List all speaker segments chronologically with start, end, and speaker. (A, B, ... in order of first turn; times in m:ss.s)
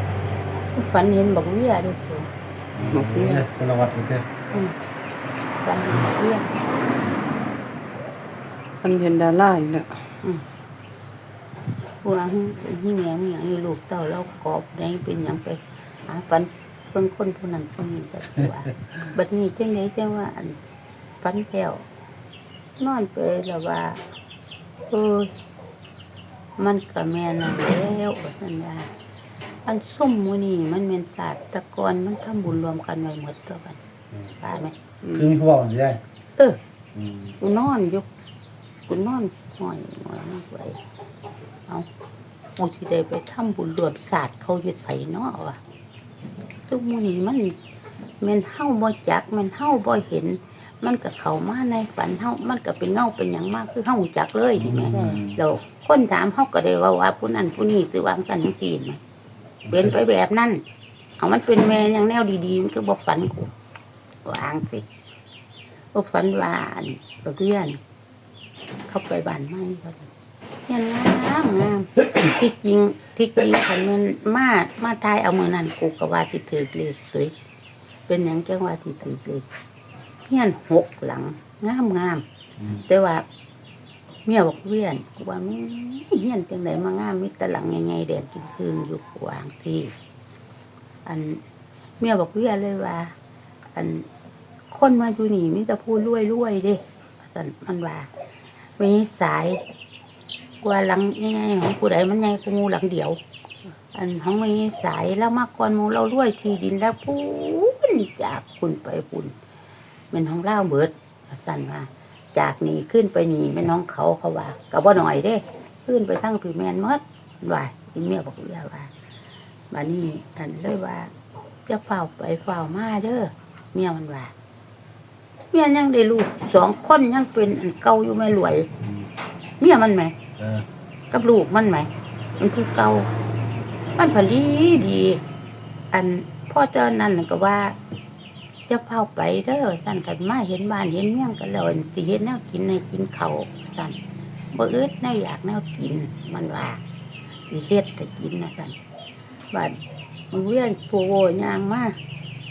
0:00.8-0:02.3 A
0:02.8-0:04.2 B
0:02.9-0:03.4 C
0:05.6-0:06.5 A
0:08.8-0:09.9 C
0:12.0-0:20.6 A
0:21.2-0:21.8 A
0:22.8-0:24.0 A
0:24.9-0:25.3 A
0:26.6-0:28.9 A
0:29.7-0:33.8 A
0:34.4-0:34.8 A
0:35.1-0:36.0 B
0:37.0-0:37.4 B
0:37.4-0:38.1 A
0:38.9-0:40.8 A
0:42.6-0:45.6 A
0:46.7-0:47.6 A
0:48.2-0:59.0 A
0:54.6-0:55.4 B
0:54.9-0:55.2 C
0:59.6-1:00.0 B
0:59.7-1:00.6 A
1:01.2-1:03.5 A
1:04.2-1:04.8 A
1:05.9-1:07.8 A
1:08.9-1:10.1 A
1:10.7-1:17.3 A
1:18.1-1:19.5 A
1:20.3-1:22.2 A
1:22.8-1:23.2 A
1:24.3-1:29.9 A
1:31.0-1:31.4 A
1:32.0-1:33.1 A
1:33.8-1:34.1 A
1:34.7-1:38.1 A
1:38.8-1:39.6 A
1:40.6-1:43.2 A
1:43.9-1:49.3 A
1:50.1-1:58.9 A
1:59.7-2:01.1 A
2:01.7-2:04.3 A
2:05.5-2:08.7 A
2:09.6-2:10.2 A
2:10.4-2:10.6 B
2:11.1-2:13.1 A
2:14.0-2:15.2 A
2:15.9-2:17.8 A
2:18.7-2:24.0 A
2:24.5-2:26.8 A
2:27.5-2:28.8 A
2:30.3-2:32.0 A